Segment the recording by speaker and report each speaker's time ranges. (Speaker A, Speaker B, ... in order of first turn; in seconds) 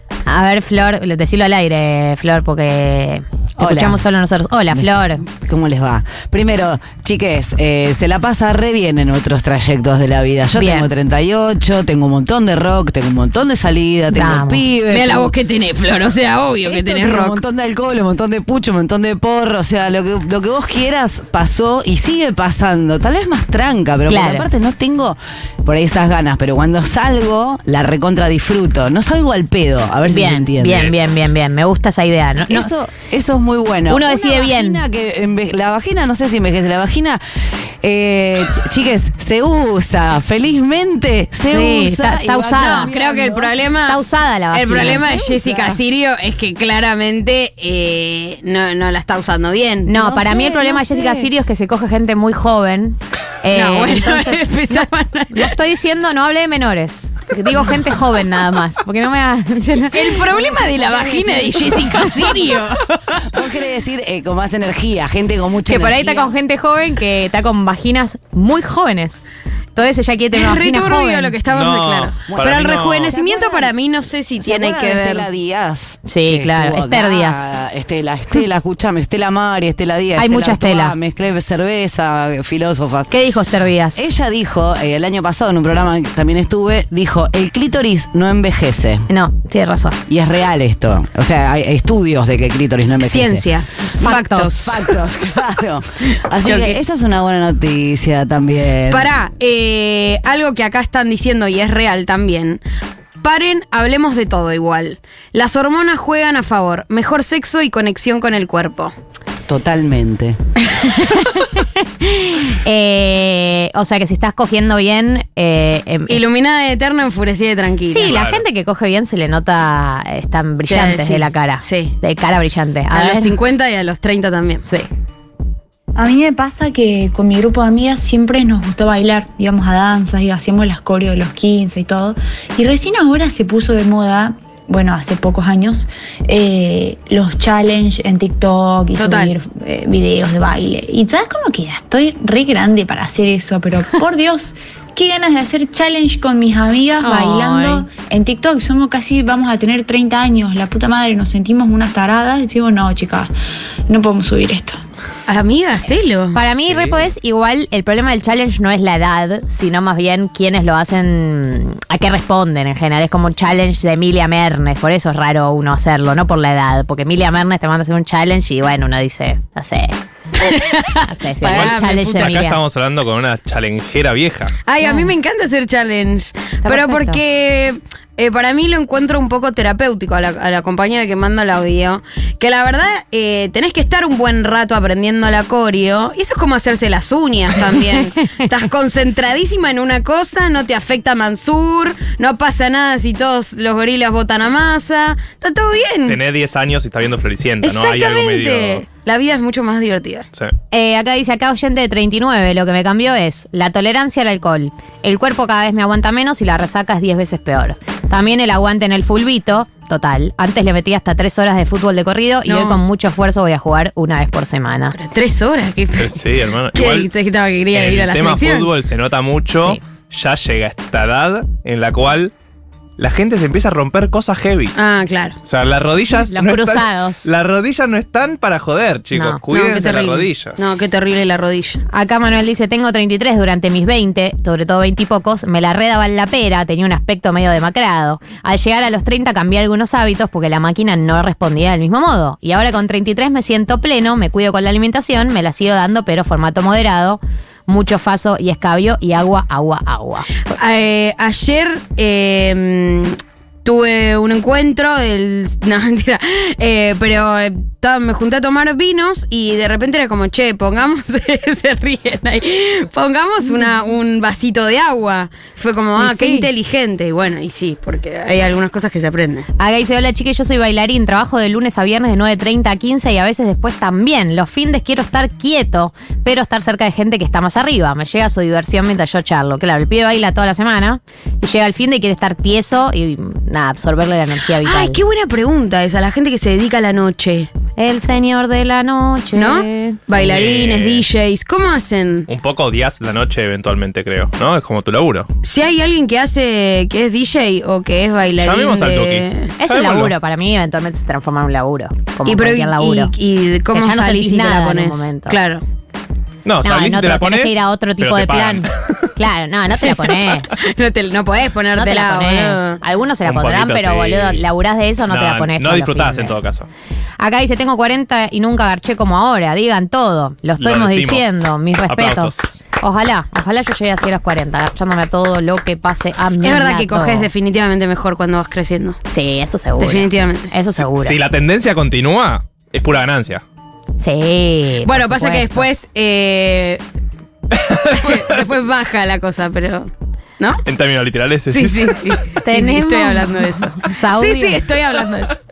Speaker A: 0.2-5.2, 10.5-10.9, 14.1-14.6, 24.1-24.5, 30.0-32.7, 33.9-34.8, 41.4-42.9, 43.9-45.1, 49.9-60.4, 65.7-71.3, 76.0-77.5, 80.2-80.9, 83.1-84.1, 89.1-90.0, 94.0-94.6, 110.6-116.2, 117.9-123.3, 147.0-147.9, 156.3-169.9, 171.1-172.6, 174.8-175.1, 176.6-177.2, 200.7-214.9, 226.1-227.3, 229.1-229.4, 231.9-250.5, 263.4-263.7, 265.9-266.5, 269.6-285.0, 287.8-290.0, 299.6-303.1, 303.7-305.4, 306.6-310.6, 311.7-316.4, 317.2-327.3, 329.1-331.2, 334.0-335.7, 342.4-344.6
Speaker B: 3.6-4.0, 4.7-15.3, 16.6-31.0, 32.5-43.5, 44.7-45.8, 49.9-51.3, 60.5-62.4, 63.3-66.3, 72.3-73.7, 74.4-83.1, 83.9-89.1, 90.1-93.5, 94.0-99.1, 109.5-110.4
Speaker C: 14.9-17.4, 42.6-49.9, 53.5-55.5, 59.9-63.3, 70.3-75.2, 93.0-94.9, 96.4-96.8, 98.9-102.6, 103.2-108.9, 116.1-118.1, 120.7-121.9, 122.9-124.6, 138.9-139.3, 155.3-156.4, 170.4-171.9, 174.6-196.2, 197.6-200.3, 212.5-212.8, 214.9-218.7, 224.7-225.4, 229.5-231.8, 250.5-269.5, 284.6-287.5, 289.3-292.3, 295.4-299.5, 302.2-305.6, 310.6-312.8, 326.4-329.0, 329.8-330.5, 334.8-336.8, 337.9-340.6, 341.5-345.4
Speaker D: 71.5-73.1, 118.0-118.4, 156.6-157.1, 171.4-174.5, 196.1-198.8, 216.0-217.1, 217.7-222.3, 223.0-224.7, 225.4-230.6, 290.1-291.0, 292.3-295.3, 298.4-300.1, 306.4-309.1, 309.8-310.3, 313.2-314.5, 315.1-316.7, 320.6-322.6, 330.8-333.4, 337.7-338.3, 340.6-342.2
Speaker E: 126.0-153.3, 153.9-154.8